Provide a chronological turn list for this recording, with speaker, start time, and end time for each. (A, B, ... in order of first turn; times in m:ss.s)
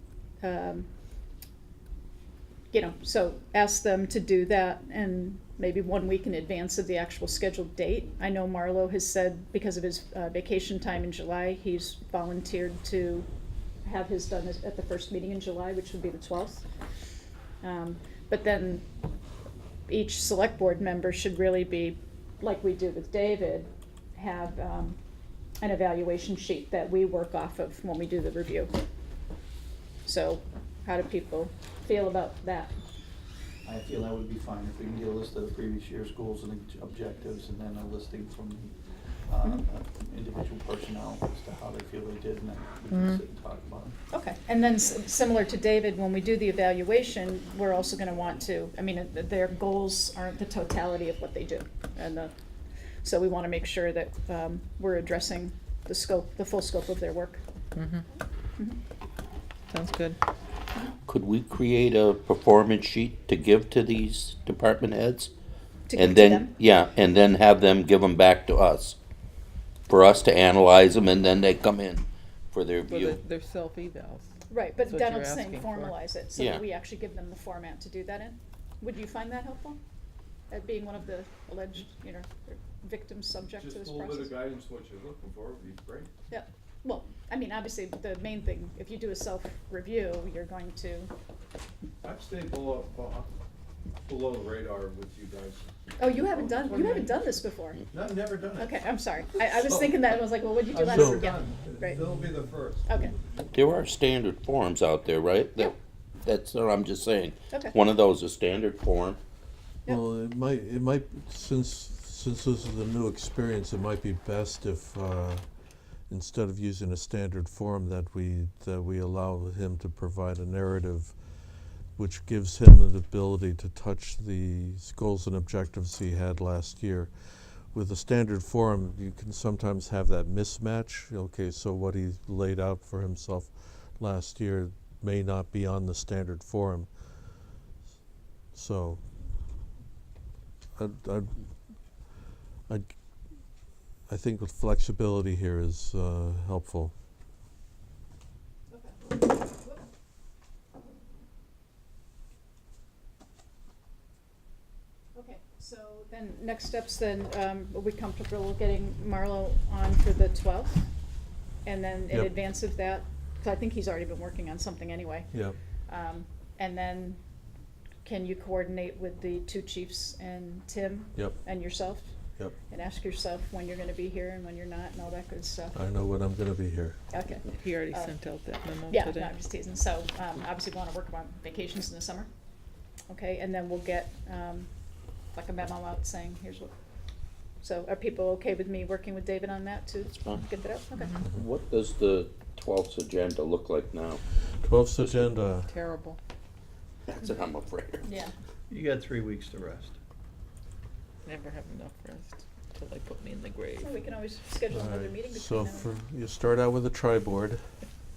0:00.4-0:00.9 A
0:02.7-0:13.3 A
0:13.8-0:16.6 A
0:17.6-0:18.8 A
0:19.9-0:25.0 A
0:25.6-0:28.7 A
0:30.0-0:32.7 A
0:33.6-0:44.0 B
0:42.9-0:43.2 C
0:44.1-0:52.3 A
0:53.0-0:57.4 A
0:57.7-0:58.0 C
0:59.7-1:00.2 C
1:01.1-1:05.3 D
1:05.9-1:06.5 A
1:05.9-1:09.0 D
1:09.9-1:13.2 D
1:12.8-1:15.9 C
1:14.5-1:19.8 A
1:16.4-1:16.6 D
1:20.5-1:24.4 A
1:23.6-1:26.1 E
1:26.3-1:31.1 A
1:32.0-1:33.3 E
1:34.0-1:37.0 E
1:36.0-1:37.8 A
1:37.9-1:38.7 B
1:38.5-1:42.0 A
1:40.7-1:42.8 B
1:40.9-1:41.2 F
1:42.2-1:43.4 E
1:42.9-1:43.1 A
1:43.5-1:49.2 D
1:49.8-1:55.4 F
1:56.1-2:01.2 F
2:02.0-2:16.9 F
2:18.5-2:19.0 F
2:20.8-2:21.4 F
2:22.7-2:23.0 F
2:24.1-2:26.9 F
2:28.7-2:29.8 A
2:35.1-2:40.9 A
2:41.6-2:45.3 A
2:45.3-2:45.6 F
2:45.9-2:47.2 A
2:48.0-2:52.1 A
2:51.2-2:51.4 F
2:52.7-2:55.7 A
2:55.7-2:57.0 F
2:57.1-2:58.1 A
2:57.6-2:59.3 C
2:58.9-3:02.3 A
3:03.1-3:04.7 A
3:05.3-3:06.7 A
3:07.6-3:11.2 A
3:10.0-3:10.4 D
3:11.3-3:14.2 D
3:14.6-3:15.7 F
3:15.0-3:15.3 D
3:15.7-3:16.2 C
3:17.1-3:18.0 D
3:18.0-3:18.3 A
3:18.7-3:20.0 B
3:21.2-3:23.9 C
3:23.8-3:25.9 A
3:24.7-3:27.7 F